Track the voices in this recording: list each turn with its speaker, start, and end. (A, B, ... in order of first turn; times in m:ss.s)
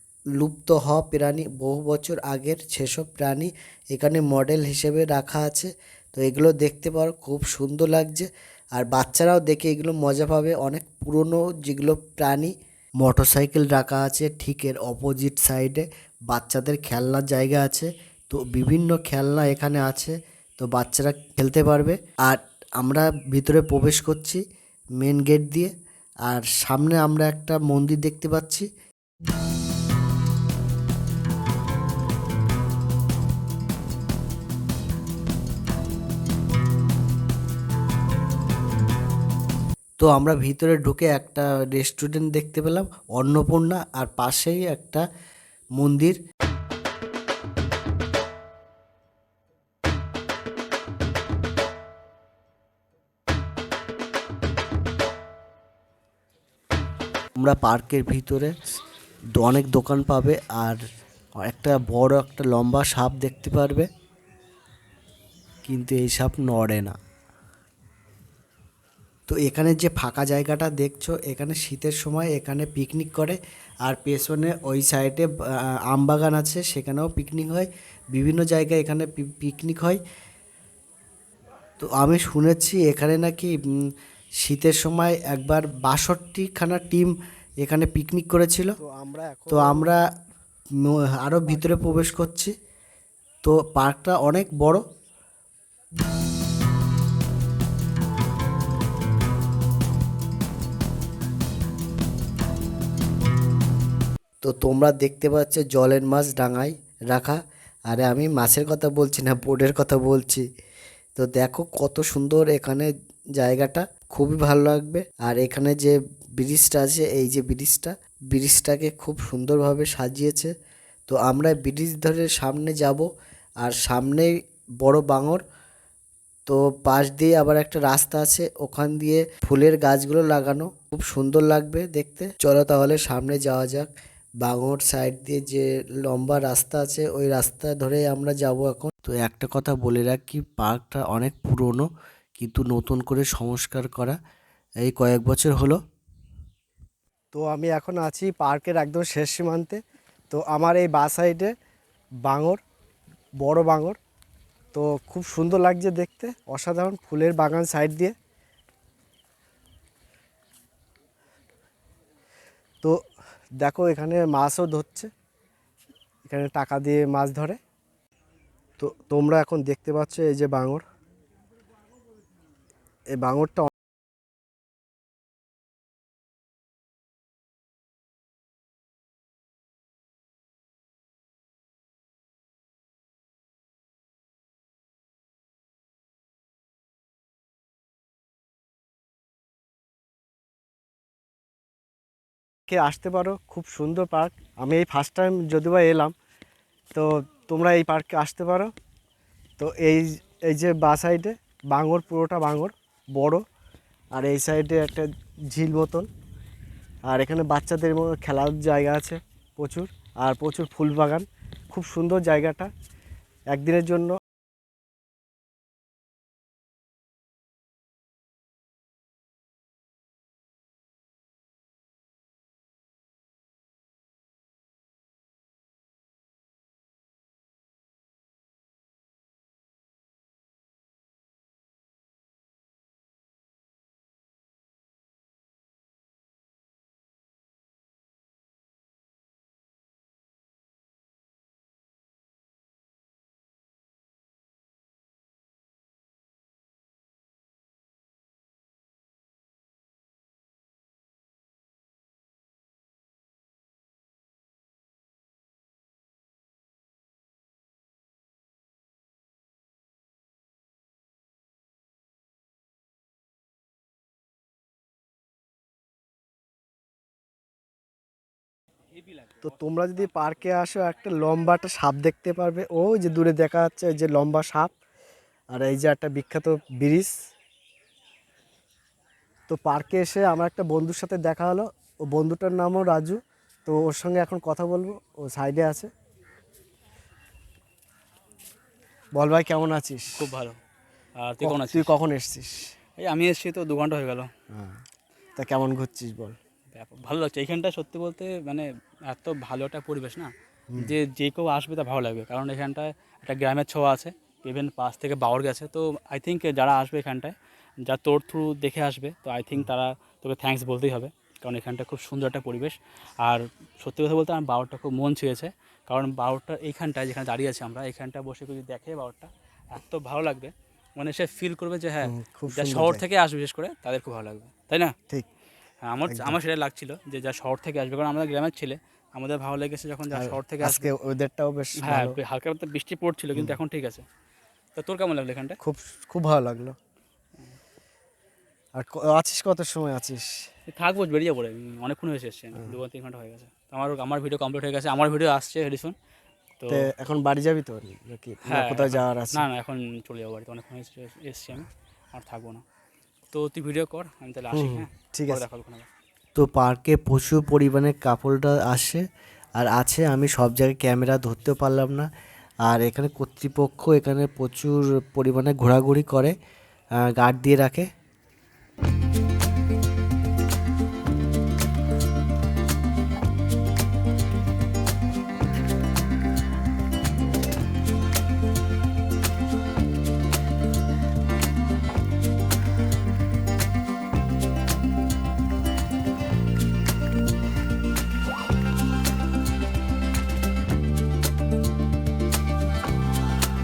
0:00.4-0:24.4 A
0:25.0-0:25.7 A
0:26.3-0:28.7 A
0:40.0-0:45.0 A
0:45.8-0:46.2 A
0:57.4-0:58.5 A
0:59.4-1:00.8 A
1:01.4-1:03.9 A
1:05.6-1:07.0 A
1:09.3-1:20.0 A
1:21.8-1:23.8 A
1:24.4-1:28.8 A
1:28.8-1:29.9 B
1:29.5-1:30.0 A
1:30.8-1:32.5 A
1:31.5-1:32.1 B
1:33.4-1:34.8 A
1:44.4-1:50.4 A
1:51.2-2:00.5 A
2:01.1-2:03.1 A
2:03.6-2:05.4 A
2:06.5-2:13.9 A
2:14.4-2:21.9 A
2:22.4-2:24.2 A
2:24.8-2:25.8 A
2:27.3-2:31.5 B
2:32.3-2:32.6 B
2:33.4-2:34.0 B
2:34.7-2:38.2 B
2:43.6-2:45.1 B
2:46.3-2:47.6 B
2:48.8-2:50.8 B
2:53.1-2:53.7 B
3:12.7-3:16.1 B
3:16.9-3:18.7 B
3:19.6-3:23.4 B
3:24.2-3:26.1 B
3:27.1-3:32.7 B
3:33.5-3:34.2 B
4:29.4-4:34.7 B
4:35.5-4:37.1 B
4:39.5-4:45.9 B
4:49.2-4:50.3 B
4:50.2-4:50.6 C
4:51.2-4:51.9 C
4:51.4-4:52.7 B
4:53.0-4:54.3 C
4:54.5-4:54.8 B
4:55.4-4:56.4 B
4:56.7-5:25.0 C
5:22.0-5:23.0 B
5:25.8-5:30.9 C
5:26.1-5:26.4 B
5:30.1-5:32.2 B
5:31.8-5:34.0 C
5:34.8-5:35.6 C
5:35.6-5:36.8 B
5:38.8-5:40.5 B
5:40.7-5:46.0 C
5:46.6-5:46.9 C
5:46.7-5:49.4 B
5:48.5-5:52.6 C
5:53.3-5:55.9 C
5:54.5-5:55.4 B
5:56.4-5:59.0 A
5:59.6-6:02.1 A
6:02.7-6:06.4 A
6:07.0-6:07.9 A